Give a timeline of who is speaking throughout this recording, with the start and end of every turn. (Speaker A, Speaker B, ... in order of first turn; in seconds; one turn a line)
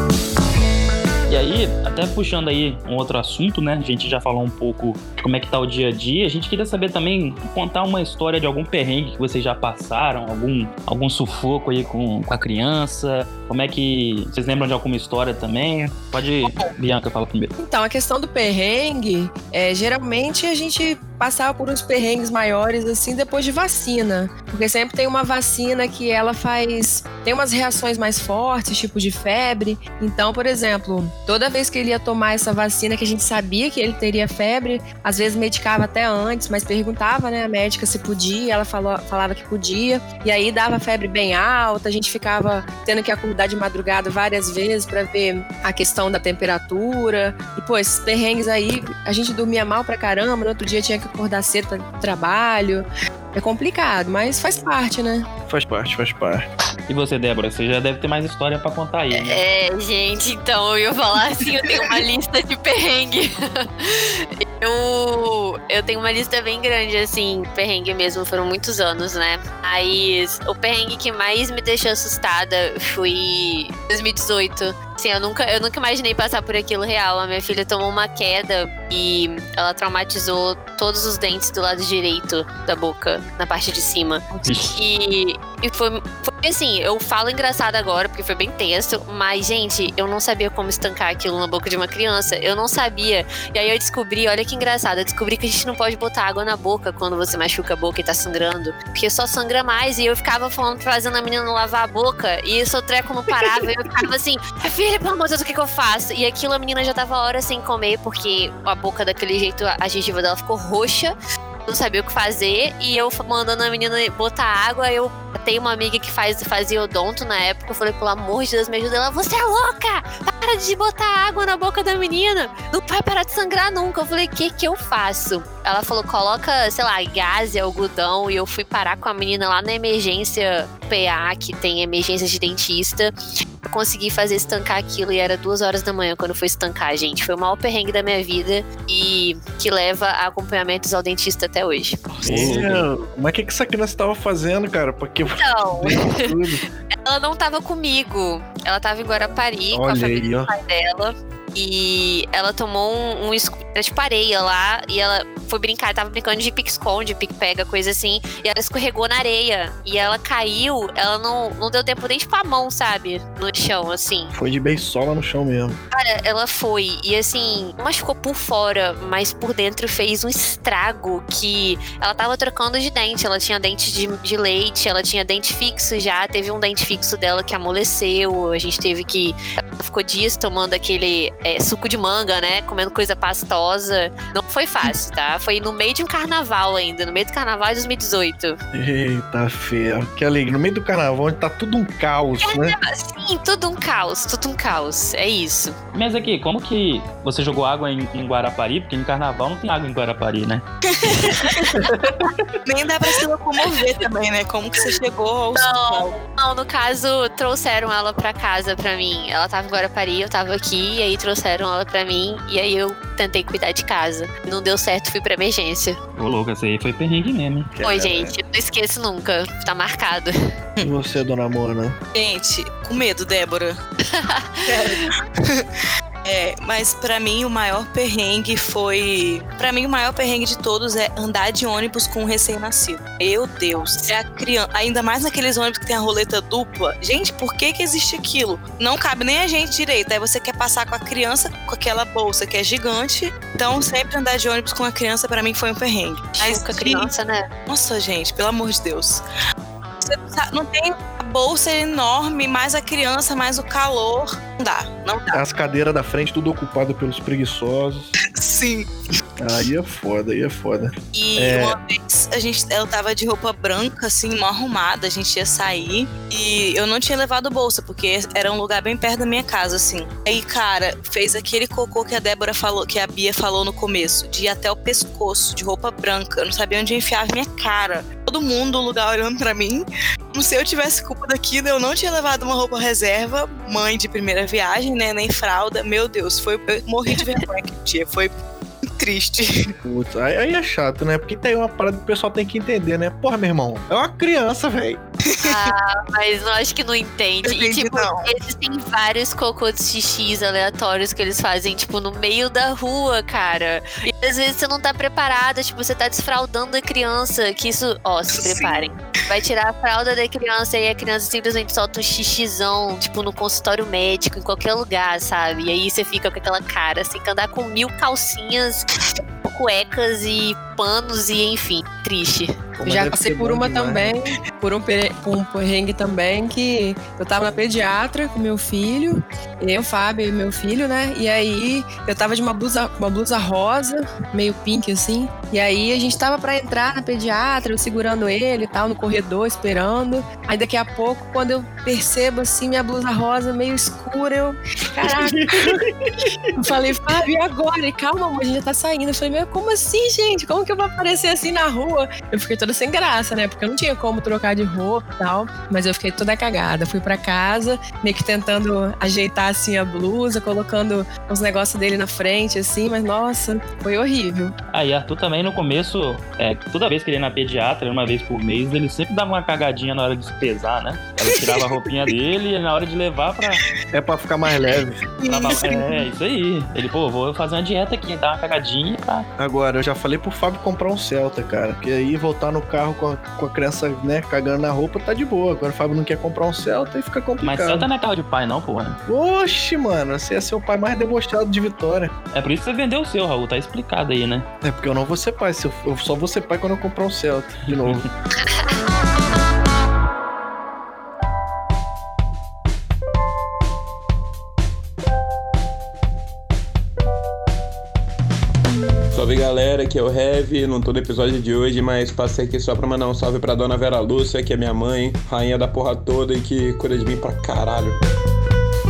Speaker A: 1.3-17.5
Speaker B: 17.6-55.3
Speaker C: 55.5-56.5
Speaker A: 56.9-59.4
Speaker D: 59.1-111.1
Speaker A: 84.4-84.7
Speaker D: 111.7-133.1
Speaker D: 133.6-142.0
Speaker E: 142.1-142.6
Speaker A: 142.2-142.9
Speaker C: 142.2-146.6
Speaker D: 145.3-146.3
Speaker D: 147.0-164.3
Speaker C: 149.7-150.5
Speaker C: 164.3-165.8
Speaker D: 165.9-188.6
Speaker C: 188.7-192.8
Speaker D: 192.4-195.7
Speaker A: 195.9-200.6
Speaker E: 200.8-201.9
Speaker D: 201.2-201.5
Speaker E: 202.7-206.2
Speaker D: 205.5-216.0
Speaker A: 216.2-217.7
Speaker C: 217.7-218.3
Speaker D: 217.8-220.3
Speaker C: 220.8-221.9
Speaker E: 222.1-223.8
Speaker D: 224.1-224.7
Speaker E: 224.7-225.7
Speaker E: 226.2-247.1
Speaker D: 246.4-247.5
Speaker E: 247.7-249.2
Speaker E: 250.0-255.4
Speaker C: 255.3-258.1
Speaker E: 258.3-258.9
Speaker C: 259.4-261.8
Speaker E: 261.1-288.3
Speaker E: 288.9-289.7
Speaker C: 289.8-295.0
Speaker E: 295.3-295.7
Speaker D: 295.4-318.9
Speaker E: 297.4-298.3
Speaker E: 308.3-308.9
Speaker D: 319.4-322.5
Speaker C: 322.8-324.1
Speaker B: 322.8-345.8
Speaker C: 345.0-346.5
Speaker B: 346.6-364.6
Speaker A: 364.7-373.6
Speaker E: 371.2-371.6
Speaker C: 373.9-375.0
Speaker E: 375.2-376.0
Speaker A: 375.3-379.2
Speaker C: 379.4-387.9
Speaker A: 387.4-389.0
Speaker C: 389.1-392.1
Speaker A: 392.3-394.4
Speaker C: 394.6-398.1
Speaker A: 397.7-398.1
Speaker F: 409.1-418.0